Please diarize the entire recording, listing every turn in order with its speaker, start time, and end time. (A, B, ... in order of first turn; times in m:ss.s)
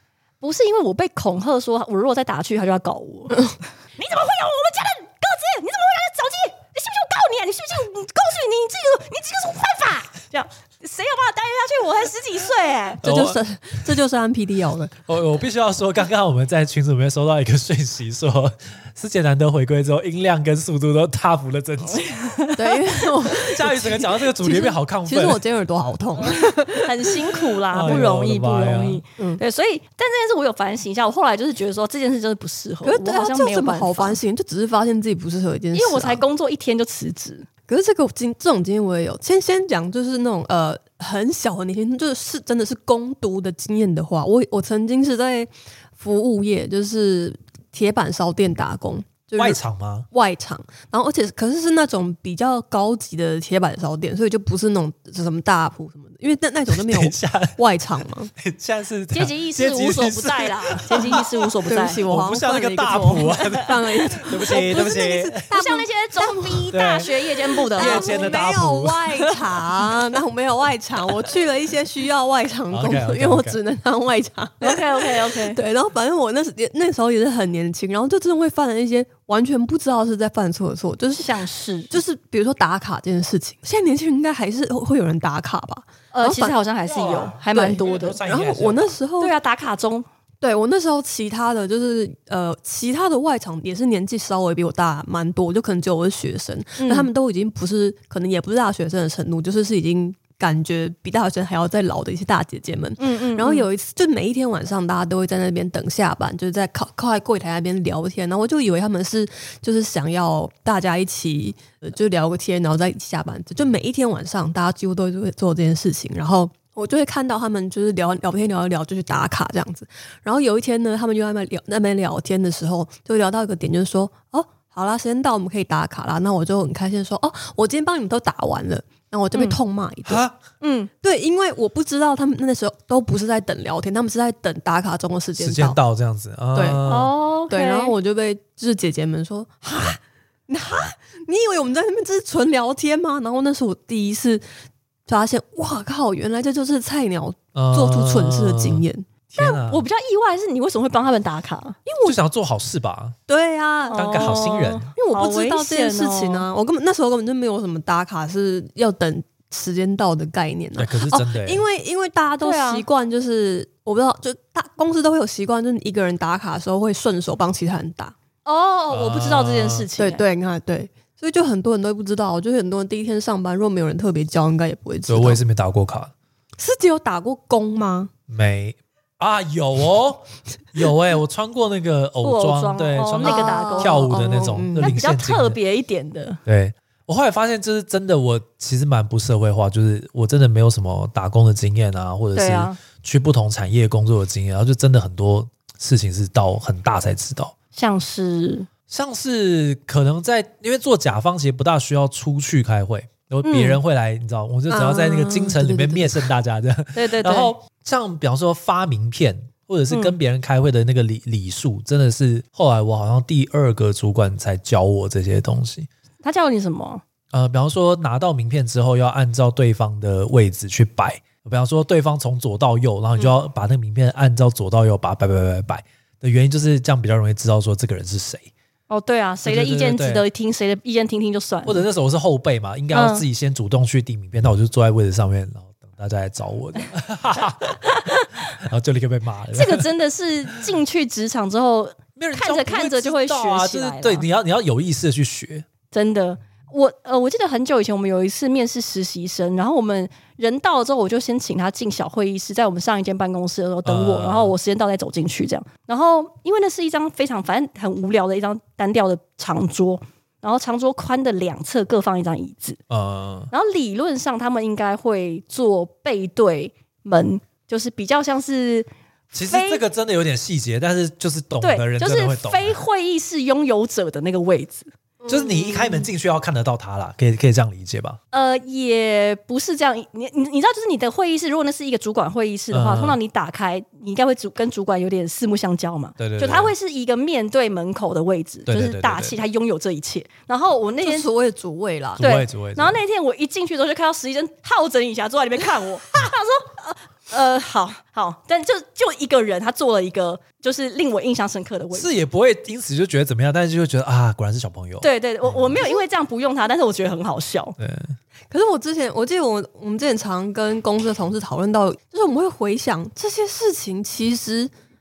0:00.4-0:13.0 A
0:13.0-0:13.4 B
0:13.0-0:14.9 C
0:15.1-0:22.1 B
0:22.1-0:22.8 A
0:22.6-0:28.0 C
0:23.4-0:25.4 B
0:26.8-0:34.2 A
0:27.7-0:29.0 B
0:32.8-0:36.2 C
0:35.7-0:37.5 A
0:37.7-0:49.6 C
0:49.4-0:50.1 B
0:50.1-0:58.3 C
0:56.7-0:57.6 B
0:58.4-1:01.5 B
0:59.1-1:02.0 A
1:01.7-1:26.6 C
1:02.0-1:05.4 B
1:03.2-1:03.5 A
1:04.5-1:05.0 A
1:05.5-1:08.4 A
1:06.7-1:07.1 B
1:07.7-1:09.1 B
1:12.7-1:13.6 B
1:14.6-1:15.6 A
1:21.1-1:22.0 A
1:26.1-1:28.2 A
1:26.8-1:29.0 B
1:27.5-1:29.3 C
1:29.2-1:30.1 A
1:30.4-2:10.2 C
1:36.8-1:37.1 A
1:43.0-1:43.7 A
2:10.1-2:10.4 B
2:10.6-2:10.9 A
2:11.0-2:15.8 C
2:15.4-2:17.1 B
2:16.5-2:16.8 C
2:16.9-2:17.9 A
2:17.5-2:24.4 C
2:25.1-2:29.1 C
2:27.6-2:29.9 B
2:29.4-2:32.1 A
2:32.0-2:33.2 B
2:33.3-2:48.2 C
2:33.9-2:36.5 A
2:34.0-2:34.9 B
2:40.8-2:41.6 B
2:42.4-2:42.9 A
2:48.4-2:50.2 A
2:48.9-2:49.9 B
2:50.0-2:55.4 C
2:55.1-2:56.1 B
2:56.6-2:58.1 C
2:58.3-3:05.6 B
3:02.2-3:06.4 A
3:03.2-3:04.9 C
3:06.5-3:17.5 B
3:12.4-3:12.8 A
3:17.8-3:18.7 A
3:18.9-3:35.9 B
3:23.4-3:23.8 A
3:24.7-3:26.3 C
3:27.0-3:27.5 A
3:36.2-3:37.0 A
3:37.3-3:48.5 B
3:48.9-3:51.8 A
3:49.4-3:50.3 B
3:51.6-3:59.9 B
3:52.9-3:53.3 A
3:57.9-3:58.3 A
3:59.5-4:04.3 A
4:02.2-4:05.7 B
4:05.9-4:22.8 A
4:13.8-4:14.6 B
4:22.9-4:23.5 B
4:23.5-4:29.8 A
4:29.3-4:32.8 B
4:31.6-4:34.9 A
4:35.2-4:36.1 C
4:35.3-4:38.2 B
4:38.3-4:51.3 A
4:42.7-4:43.2 B
4:46.2-4:46.7 B
4:48.7-4:49.4 B
4:51.0-4:52.2 C
4:52.2-4:53.0 B
4:52.2-5:02.1 A
5:01.9-5:05.9 B
5:05.0-5:07.8 A
5:07.8-5:08.2 B
5:08.5-5:14.7 C